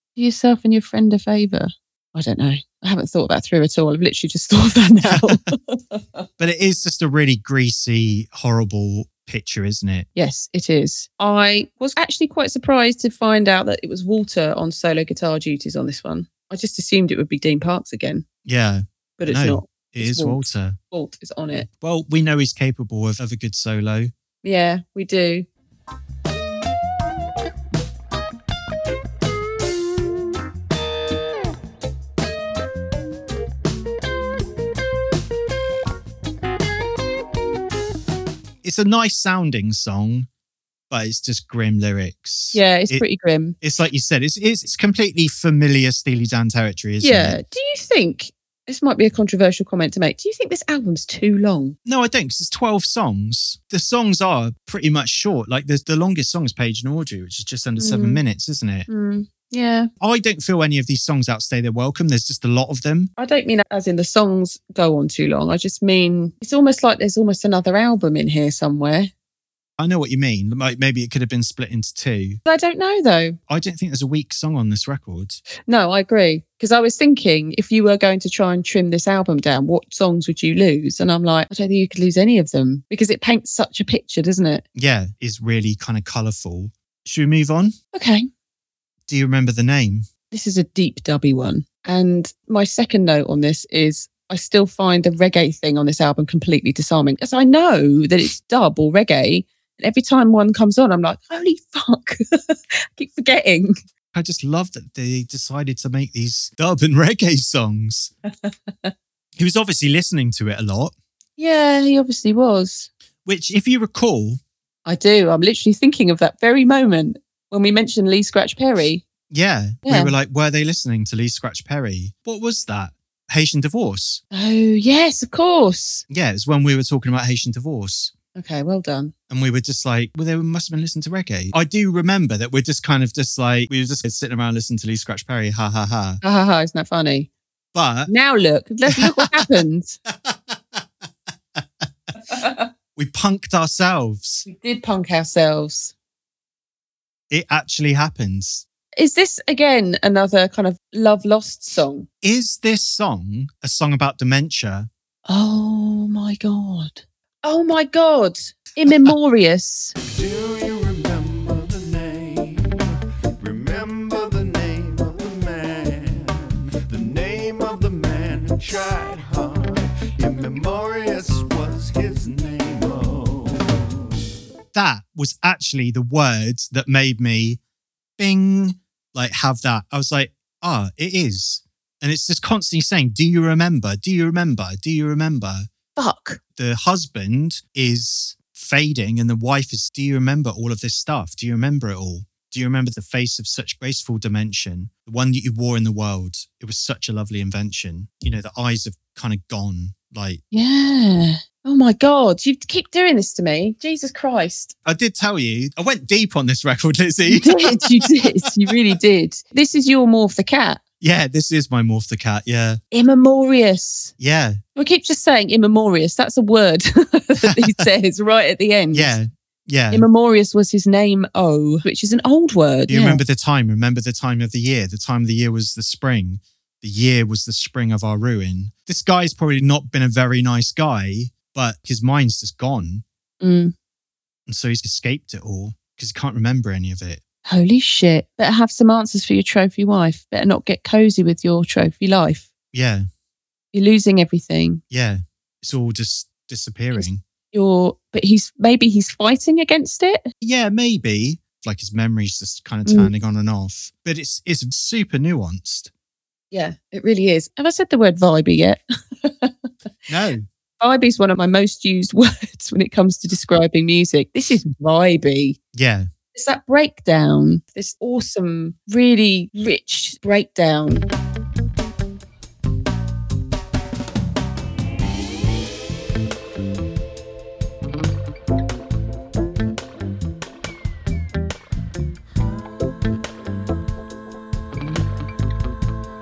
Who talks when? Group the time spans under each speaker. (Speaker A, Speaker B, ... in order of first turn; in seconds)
Speaker A: 0.2-6.2, 10.2-18.2, 19.2-21.7, 24.4-25.5, 42.5-43.6, 47.0-51.8, 57.8-58.2, 58.9-59.9, 63.2-69.1, 72.5-73.4, 75.7-84.6, 87.9-88.3, 90.3-103.8, 108.4-108.9, 111.4-112.9, 114.8-119.0, 119.8-120.1, 124.3-126.0, 128.3-129.1, 136.2-137.3, 138.1-140.0, 142.3-142.7, 144.4-145.9, 149.0-152.1, 155.3-159.9, 185.9-186.4, 200.5-204.8, 207.3-210.8, 212.9-214.1, 214.8-219.1, 219.9-223.2, 233.4-233.7, 237.4-242.5, 243.7-244.8, 246.9-250.3, 252.8-253.1, 256.5-259.5, 260.8-265.6, 266.3-271.1
Speaker B: 5.0-5.4, 6.4-10.1, 18.4-20.8, 21.8-24.1, 38.6-40.3, 40.9-43.0, 43.6-47.4, 51.9-58.9, 60.0-63.1, 69.8-72.4, 73.5-75.4, 84.8-87.8, 89.1-90.1, 104.1-108.1, 109.4-110.9, 113.2-114.4, 119.3-124.2, 126.1-128.1, 129.3-136.2, 137.7-138.1, 138.9-139.5, 140.1-140.8, 141.6-141.8, 142.9-144.4, 147.3-148.6, 152.2-154.9, 174.7-177.6, 178.2-185.7, 186.6-200.4, 204.8-208.7, 211.0-212.8, 214.2-214.6, 217.4-217.8, 218.9-220.1, 222.9-233.0, 234.5-237.2, 242.7-243.1, 244.9-247.2, 250.4-255.9, 260.1-260.4, 265.7-266.1
Speaker C: 160.1-174.0